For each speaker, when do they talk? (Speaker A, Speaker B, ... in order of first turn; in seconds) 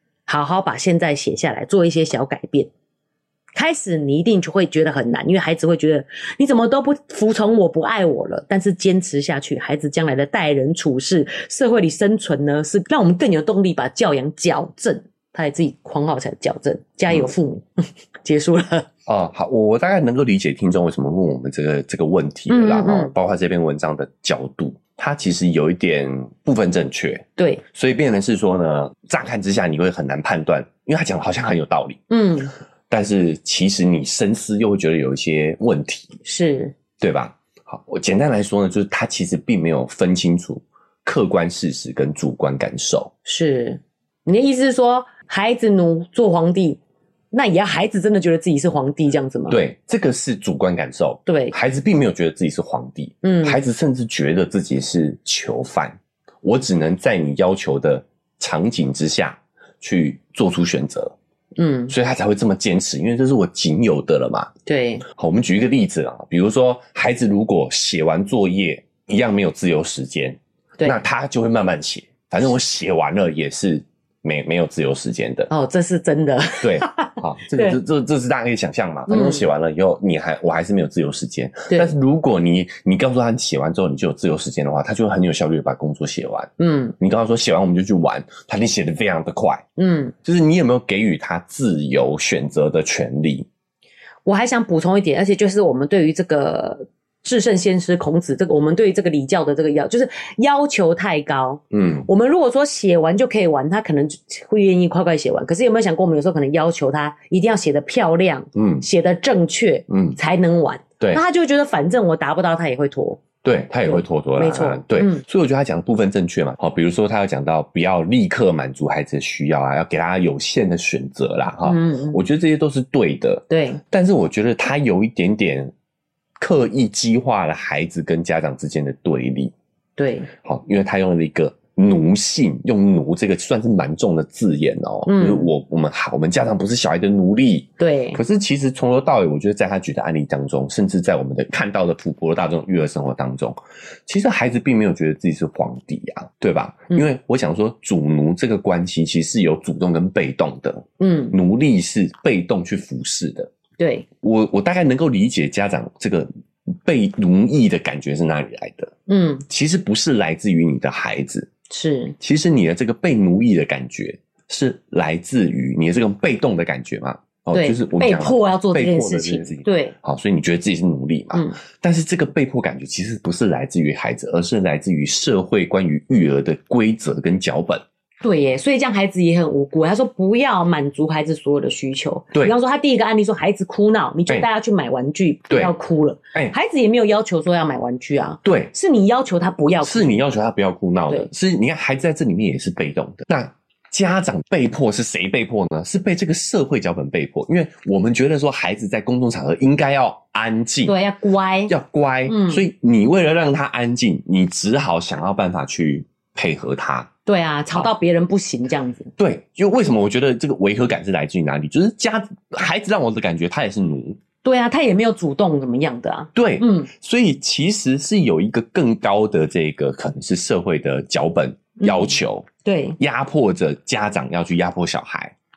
Speaker A: 0.3-2.7, 3.5-18.9, 22.5-23.1, 27.4-27.6, 32.1-32.5, 36.2-36.8, 43.2-46.8, 47.3-49.6, 51.3-51.5, 53.2-53.6, 61.6-61.9, 64.7-65.0, 75.5-77.8, 79.1-79.5, 86.6-87.0, 89.8-90.1, 94.3-113.2, 113.9-115.2, 121.7-122.2, 123.5-123.8, 130.0-130.3, 135.1-135.5, 137.8-138.2, 151.0-151.4, 153.8-154.1, 159.1-159.4, 161.7-162.2, 167.5-169.9, 178.2-190.2, 200.9-201.7, 202.3-202.6, 207.3-209.1, 214.4-216.9, 221.8-223.0
Speaker B: 19.1-32.0, 32.9-36.2, 37.0-43.1, 49.5-61.1, 61.9-64.5, 65.1-75.5, 76.6-89.7, 90.2-93.5, 101.7-102.1, 108.5-108.8, 109.9-110.2, 113.4-125.7, 126.4-129.5, 130.4-153.5, 154.2-158.9, 159.5-161.5, 162.2-177.8, 188.4-188.7, 189.8-200.9, 201.7-207.1, 209.2-214.2, 216.3-225.3